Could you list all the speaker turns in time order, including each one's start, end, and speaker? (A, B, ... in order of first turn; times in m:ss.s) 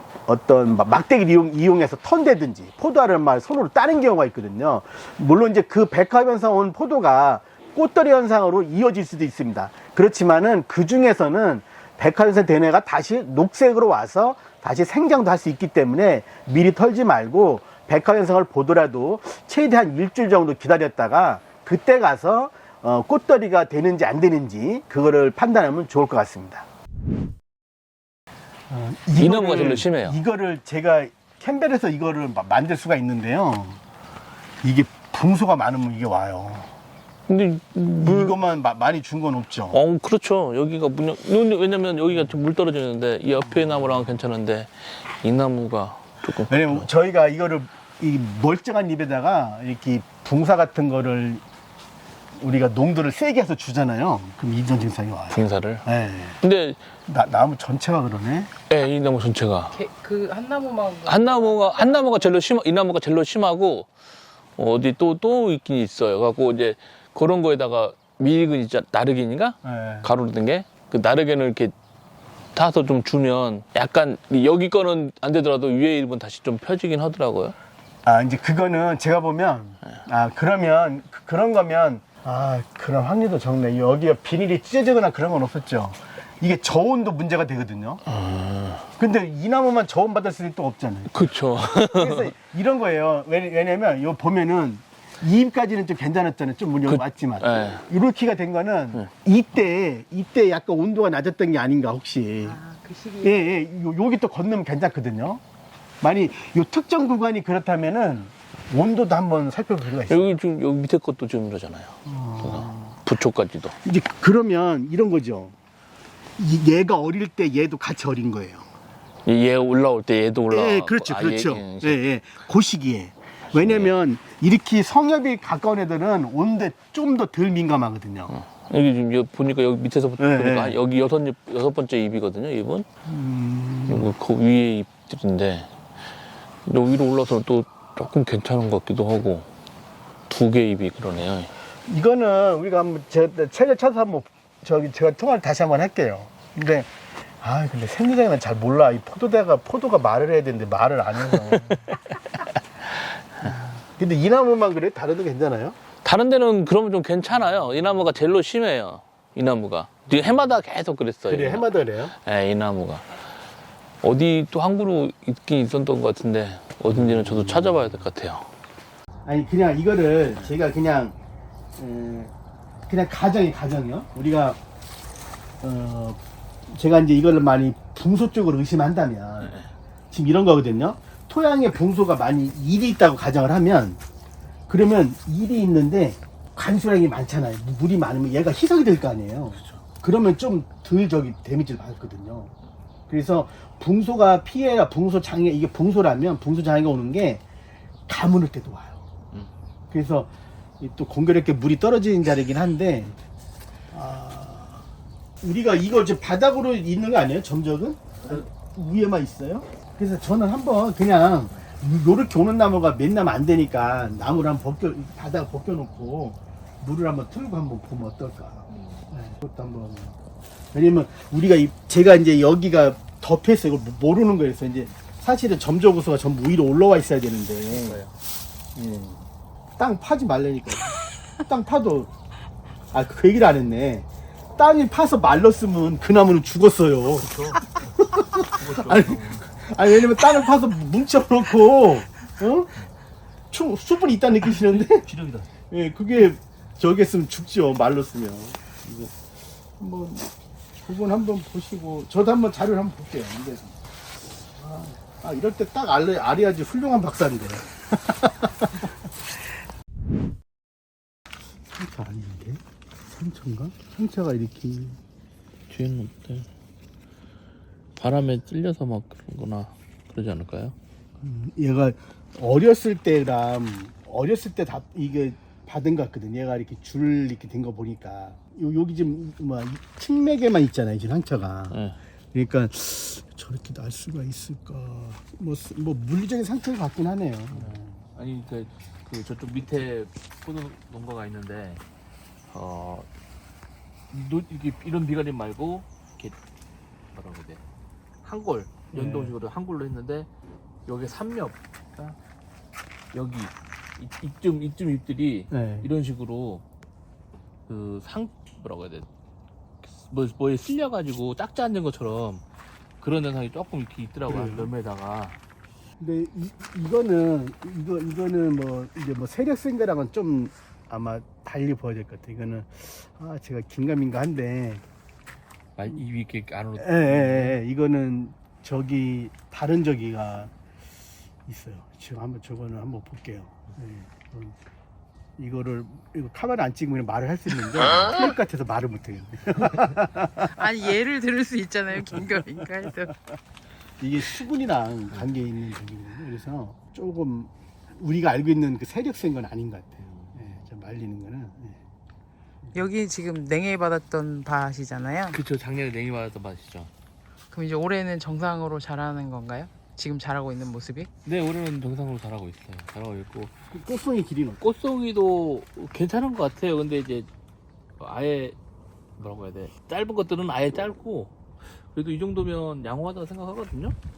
0:00.3-0:26.6 A
0:28.7-0:33.8 A
0:29.1-0:30.2 B
0:34.6-0:36.7 A
0:37.3-0:38.4 B
0:38.0-0:39.8 A
0:39.7-0:46.9 B
0:46.4-0:51.4 A
0:52.4-0:56.4 A
0:55.3-0:55.9 B
0:56.4-0:56.8 B
0:57.1-0:58.5 A
0:58.7-0:59.8 B
0:59.7-1:02.2 C
1:01.0-1:03.9 B
1:04.6-1:11.7 B
1:09.6-1:10.1 A
1:12.5-1:17.5 B
1:18.0-1:28.0 A
1:28.1-1:28.9 B
1:29.0-1:42.6 A
1:31.1-1:32.3 B
1:36.9-1:37.8 B
1:42.5-1:43.3 C
1:43.2-1:45.4 A
1:46.0-1:50.3 A
1:50.0-1:53.8 B
1:52.0-1:53.0 A
1:53.8-1:55.5 A
1:56.4-1:58.7 A
1:59.2-2:02.0 B
2:00.5-2:08.4 A
2:03.4-2:03.9 B
2:08.3-2:12.9 B
2:10.2-2:10.8 A
2:13.0-2:14.1 A
2:13.9-2:15.7 B
2:16.6-2:19.5 B
2:20.3-2:21.5 B
2:21.8-2:31.9 A
2:31.2-2:32.2 B
2:33.4-2:35.8 A
2:36.0-2:43.1 B
2:41.3-2:42.1 A
2:44.0-2:48.5 B
2:49.2-2:51.1 A
2:51.8-2:52.3 A
2:52.9-2:54.6 A
2:55.6-3:04.0 A
3:04.7-3:12.5 A
3:13.1-3:17.4 A
3:18.1-3:19.0 A
3:19.9-3:23.1 A
3:23.9-3:24.8 A
3:25.4-3:40.2 A
3:38.7-3:39.0 B
3:40.7-3:48.0 A
3:47.7-3:48.1 B
3:48.8-3:49.2 A
3:49.8-3:52.1 A
3:52.9-4:02.8 A
3:57.2-3:59.4 B
4:03.5-4:05.1 A
4:04.4-4:05.5 B
4:05.7-4:09.1 A
4:09.8-4:10.3 A
4:10.8-4:13.8 A
4:14.6-4:18.9 A
4:21.7-4:25.0 A
4:25.7-4:26.5 B
4:28.0-4:30.7 B
4:31.2-4:41.8 A
4:41.7-4:42.0 B
4:42.3-4:47.7 A
4:47.5-4:51.8 B
4:52.5-4:53.1 B
4:54.1-4:56.4 B
4:57.1-4:57.6 B
4:58.2-5:00.3 B
4:58.9-4:59.3 A
5:00.8-5:02.2 B
5:03.1-5:06.6 B
5:05.5-5:05.9 A
5:07.7-5:09.1 B
5:09.8-5:12.4 B
5:13.0-5:15.4 B
5:14.2-5:14.7 A
5:16.0-5:24.8 A
5:25.8-5:27.6 B
5:26.8-5:30.5 A
5:31.4-5:34.6 A
5:35.4-5:40.5 A
5:40.5-5:43.2 C
5:44.0-5:51.8 A
5:50.0-5:50.5 B
5:52.7-5:55.4 C
5:55.3-5:56.9 B
5:57.5-6:01.1 C
6:01.2-6:03.5 B
6:03.7-6:04.6 A
6:04.6-6:07.3 B
6:08.0-6:08.6 B
6:09.2-6:13.9 B